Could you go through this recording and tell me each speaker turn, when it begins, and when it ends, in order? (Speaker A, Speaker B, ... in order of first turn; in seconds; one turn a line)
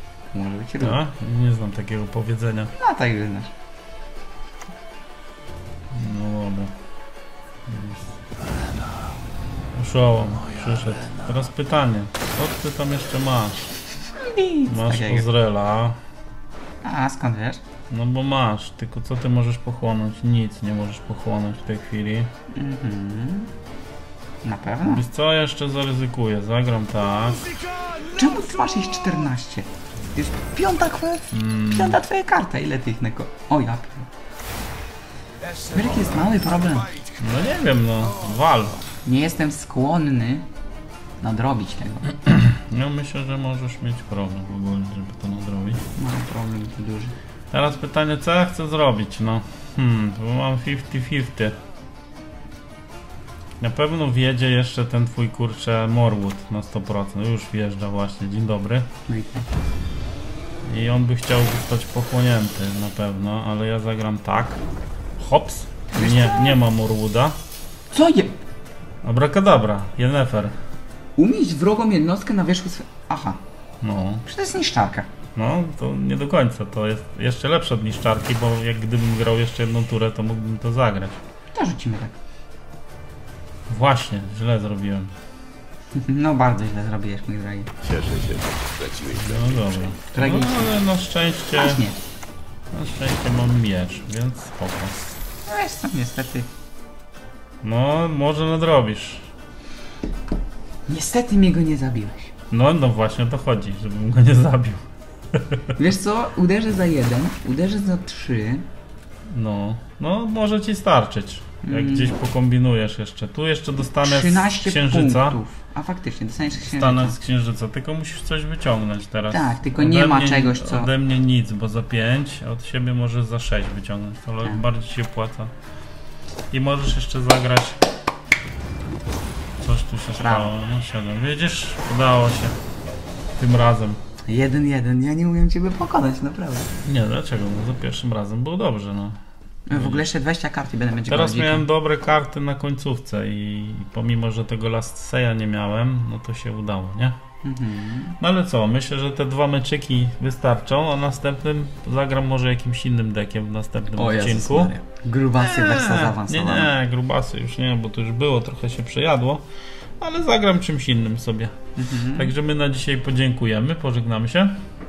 Speaker A: 0.3-1.0
Speaker B: 0.8-2.7
Speaker A: 2.7-3.5
Speaker B: 5.9-6.7
Speaker B: 7.7-8.2
Speaker C: 8.4-9.0
Speaker B: 9.7-13.7
Speaker C: 10.4-11.3
Speaker A: 14.2-15.3
Speaker B: 14.7-16.0
Speaker A: 16.8-17.6
Speaker B: 17.9-22.3
Speaker A: 22.5-23.5
Speaker A: 24.4-25.1
Speaker B: 24.8-27.5
Speaker A: 28.0-34.1
Speaker B: 31.3-32.0
Speaker A: 35.7-37.0
Speaker B: 37.2-38.8
Speaker A: 39.0-40.5
Speaker A: 41.2-42.1
Speaker B: 42.2-45.8
Speaker A: 46.0-47.1
Speaker B: 47.5-51.6
Speaker B: 53.6-58.9
Speaker A: 59.1-59.5
Speaker B: 60.6-64.6
Speaker B: 65.2-67.4
Speaker A: 65.9-66.6
Speaker A: 67.9-68.4
Speaker B: 69.0-70.6
Speaker A: 71.2-73.4
Speaker B: 73.8-74.2
Speaker A: 74.2-75.1
Speaker B: 75.3-81.2
Speaker A: 81.5-82.2
Speaker B: 83.7-85.1
Speaker A: 85.9-87.7
Speaker C: 87.8-89.7
Speaker B: 89.1-91.9
Speaker A: 90.1-90.8
Speaker A: 91.5-92.0
Speaker B: 92.7-95.0
Speaker A: 95.5-96.5
Speaker B: 97.6-99.3
Speaker A: 100.9-102.3
Speaker B: 102.5-105.8
Speaker A: 105.8-108.7
Speaker B: 109.3-115.4
Speaker A: 111.6-112.1
Speaker A: 114.0-117.2
Speaker B: 116.6-125.5
Speaker A: 119.3-120.9
Speaker B: 126.5-127.8
Speaker B: 129.6-132.6
Speaker A: 130.2-130.5
Speaker B: 133.4-134.0
Speaker A: 134.2-136.7
Speaker B: 136.8-139.2
Speaker A: 139.7-141.7
Speaker B: 139.7-140.1
Speaker B: 141.1-147.2
Speaker A: 147.4-148.2
Speaker B: 148.2-154.7
Speaker A: 153.9-156.7
Speaker B: 155.4-159.5
Speaker B: 160.0-161.6
Speaker A: 161.8-162.3
Speaker B: 162.1-164.6